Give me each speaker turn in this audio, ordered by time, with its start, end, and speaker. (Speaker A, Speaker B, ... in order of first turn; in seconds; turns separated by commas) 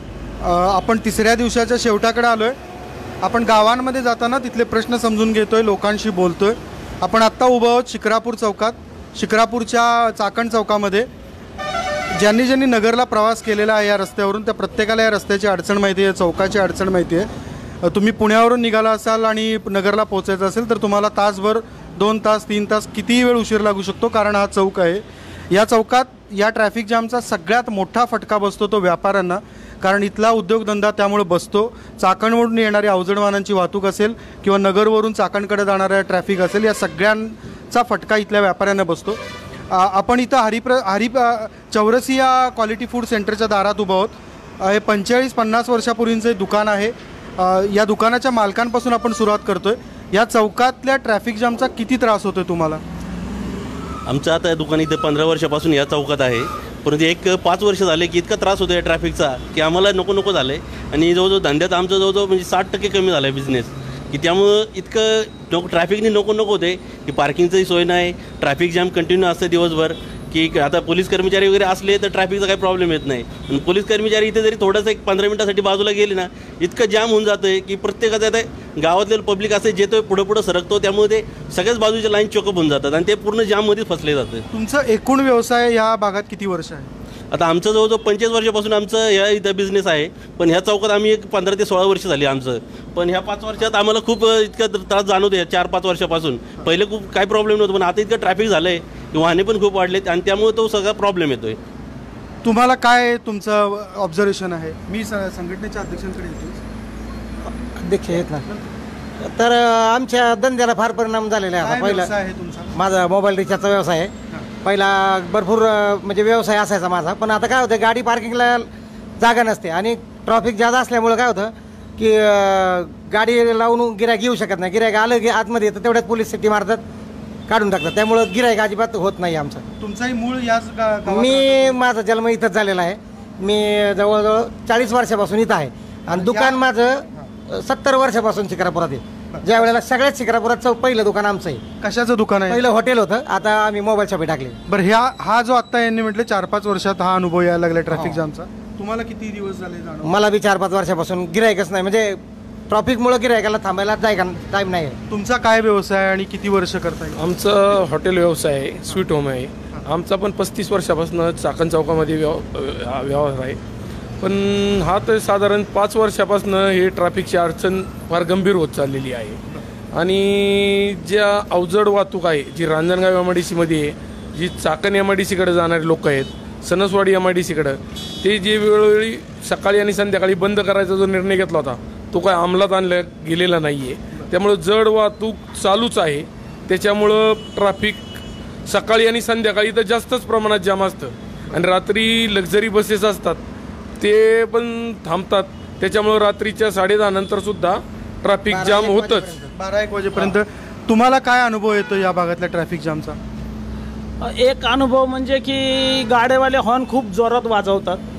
Speaker A: 0.4-2.6, Speaker A: 3.2-11.1, Speaker A: 12.2-17.3, Speaker A: 17.8-52.8, Speaker B: 54.1-84.4, Speaker A: 84.5-86.9, Speaker B: 87.3-101.6, Speaker A: 102.4-106.6, Speaker C: 107.5-108.5, Speaker C: 109.2-112.1, Speaker A: 111.6-112.7, Speaker C: 112.7-126.8, Speaker C: 127.5-129.7, Speaker A: 129.8-131.8, Speaker C: 131.1-141.6, Speaker A: 136.2-136.6, Speaker A: 139.3-139.6, Speaker A: 141.8-142.6, Speaker C: 142.5-144.6, Speaker A: 144.7-150.1, Speaker C: 147.9-148.2, Speaker C: 150.0-155.0, Speaker A: 155.1-157.2, Speaker D: 157.2-163.6, Speaker D: 164.2-169.4, Speaker D: 169.9-193.4, Speaker D: 194.0-199.3, Speaker C: 198.5-199.5, Speaker A: 199.5-203.2, Speaker E: 204.2-208.0